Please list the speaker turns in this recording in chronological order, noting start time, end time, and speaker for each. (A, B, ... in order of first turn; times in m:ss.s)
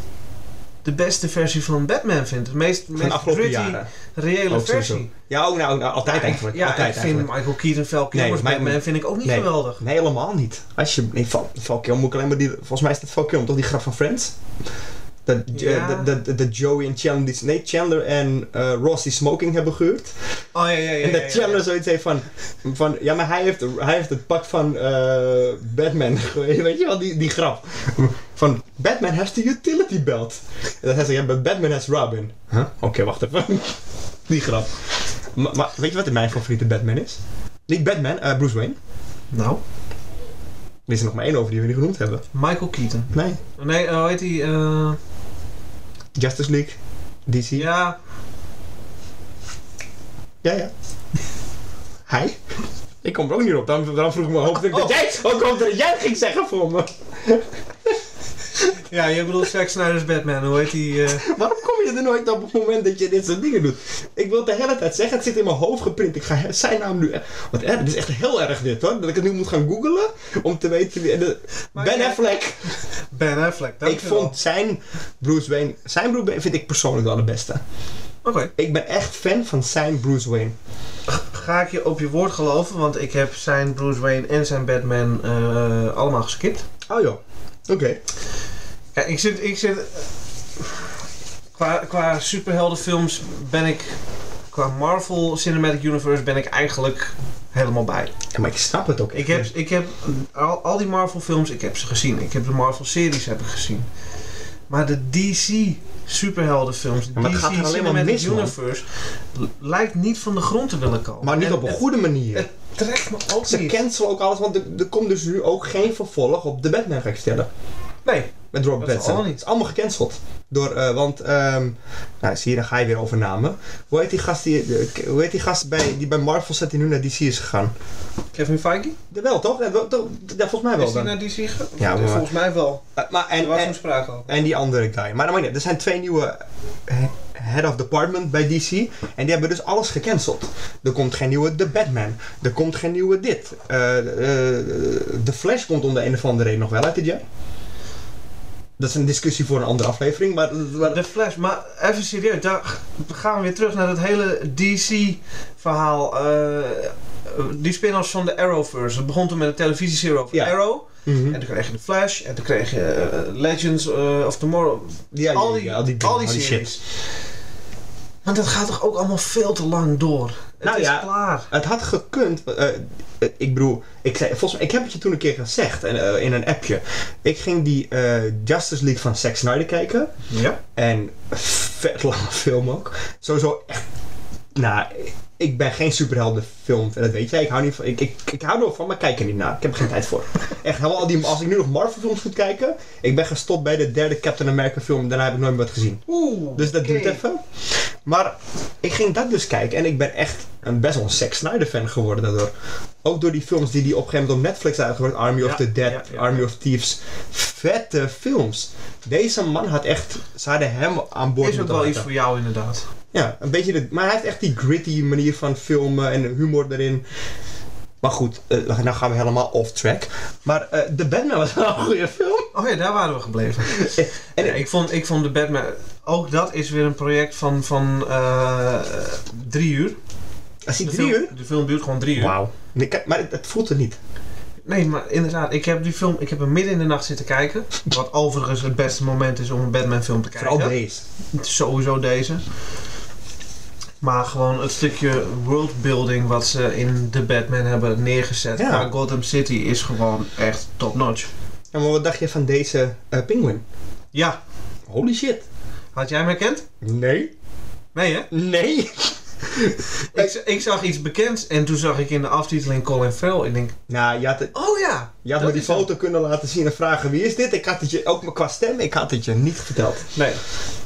0:00.8-0:05.1 A
0:03.0-0:03.9 B
0:04.5-0:07.3 B
0:06.0-0:09.8 A
0:08.1-0:14.4 B
0:15.2-0:20.1 B
0:15.5-0:16.1 A
0:20.5-0:21.6 A
0:21.0-0:38.8 B
0:39.3-0:39.6 A
0:40.9-0:42.2 B
0:42.3-0:45.0 A
0:43.1-0:43.4 B
0:46.1-0:47.7 B
0:47.5-0:48.0 A
0:50.4-0:50.7 B
0:52.1-0:52.4 B
0:53.0-0:58.0 B
0:58.6-1:01.2 A
1:01.1-1:12.8 B
1:11.7-1:14.4 A
1:13.8-1:17.6 B
1:18.2-1:18.5 A
1:18.6-1:20.5 B
1:21.1-1:26.7 A
1:26.9-1:28.0 B
1:28.9-1:30.1 A
1:31.5-1:34.0 A
1:34.5-1:38.1 A
1:38.3-1:39.5 B
1:39.1-1:43.9 A
1:44.7-1:53.8 A
1:47.1-1:48.5 B
1:51.2-1:52.5 B
1:53.4-1:57.5 B
1:58.0-1:59.4 A
1:58.5-2:07.7 B
2:08.3-2:09.0 A
2:09.1-2:11.2 B
2:10.8-2:12.8 A
2:11.8-2:12.3 B
2:13.0-2:27.2 B
2:13.4-2:14.3 A
2:28.8-2:31.0 B
2:30.8-2:46.8 A
2:41.0-2:41.4 B
2:45.1-2:46.8 B
2:48.2-2:51.5 A
2:50.6-3:00.1 B
3:00.3-3:00.6 A
3:00.7-3:03.8 B
3:04.5-3:22.5 B
3:16.1-3:17.2 A
3:23.0-3:32.1 B
3:25.4-3:26.5 A
3:31.4-3:32.8 A
3:33.1-3:37.0 B
3:38.0-3:42.5 B
3:42.5-3:50.0 A
3:43.7-3:44.6 B
3:50.6-3:51.3 B
3:50.8-3:52.3 A
3:52.2-3:54.0 B
3:54.6-4:00.8 A
4:00.4-4:01.0 B
4:01.3-4:02.4 A
4:04.0-4:11.3 A
4:08.6-4:08.9 B
4:11.7-4:13.6 B
4:14.1-4:14.4 A
4:14.9-4:15.4 B
4:15.9-4:16.7 A
4:16.8-4:17.3 B
4:17.9-4:18.3 A
4:18.3-4:20.3 B
4:20.1-4:23.8 A
4:23.9-4:24.5 B
4:24.5-4:25.9 A
4:25.2-4:30.1 B
4:30.1-4:30.4 A